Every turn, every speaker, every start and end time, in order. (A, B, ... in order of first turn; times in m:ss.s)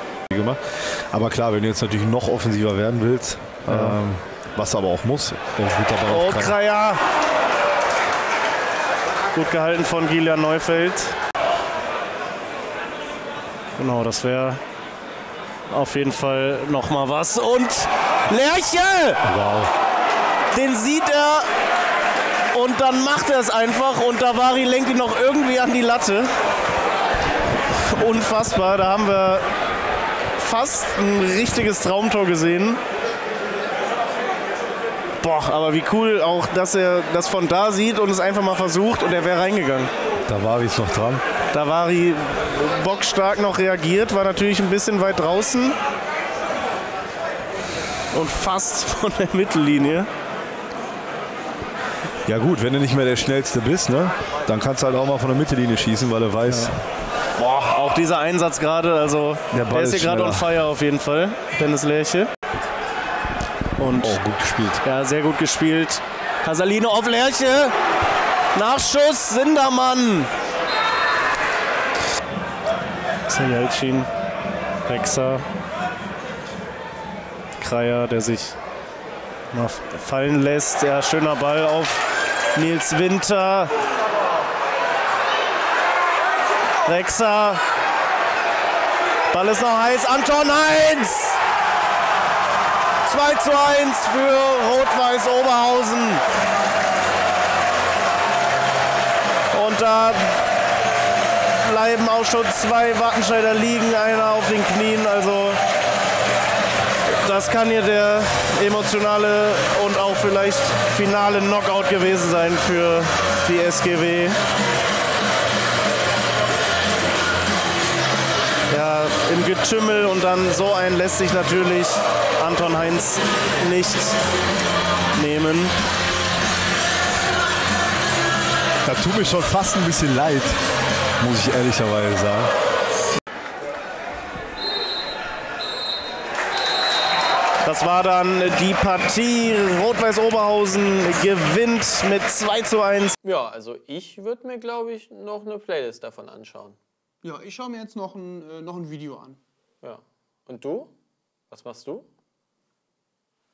0:00.3-0:06.6 A
0:03.7-0:04.0 B
0:06.1-0:07.0 B
0:09.3-0:11.2 B
0:13.8-0:14.6 B
0:15.7-0:19.2 B
0:19.2-0:19.7 A
0:20.5-0:21.5 B
0:22.5-0:26.3 B
0:27.8-0:29.4 B
0:30.4-0:32.8 B
0:35.2-0:39.9 B
0:40.3-0:41.2 A
0:41.5-0:45.8 B
0:48.1-0:50.1 B
0:52.2-0:56.8 A
0:56.5-0:56.7 B
0:57.4-1:02.3 B
0:59.5-1:00.6 A
1:03.8-1:04.2 B
1:03.9-1:04.8 A
1:04.8-1:07.7 B
1:08.5-1:10.3 B
1:13.3-1:14.1 B
1:14.9-1:15.4 B
1:17.6-1:18.6 B
1:19.5-1:23.7 B
1:26.8-1:27.6 B
1:29.3-1:31.4 B
1:33.0-1:36.2 B
1:39.5-1:40.4 B
1:41.6-1:45.6 B
1:47.1-1:54.4 B
1:58.7-2:04.2 B
2:05.2-2:05.8 B
2:08.8-2:10.6 A
2:11.2-2:12.5 A
2:17.6-2:23.2 B
2:23.2-2:26.8 C
2:27.2-2:29.4 D
2:29.8-2:30.9 C
2:31.5-2:32.1 C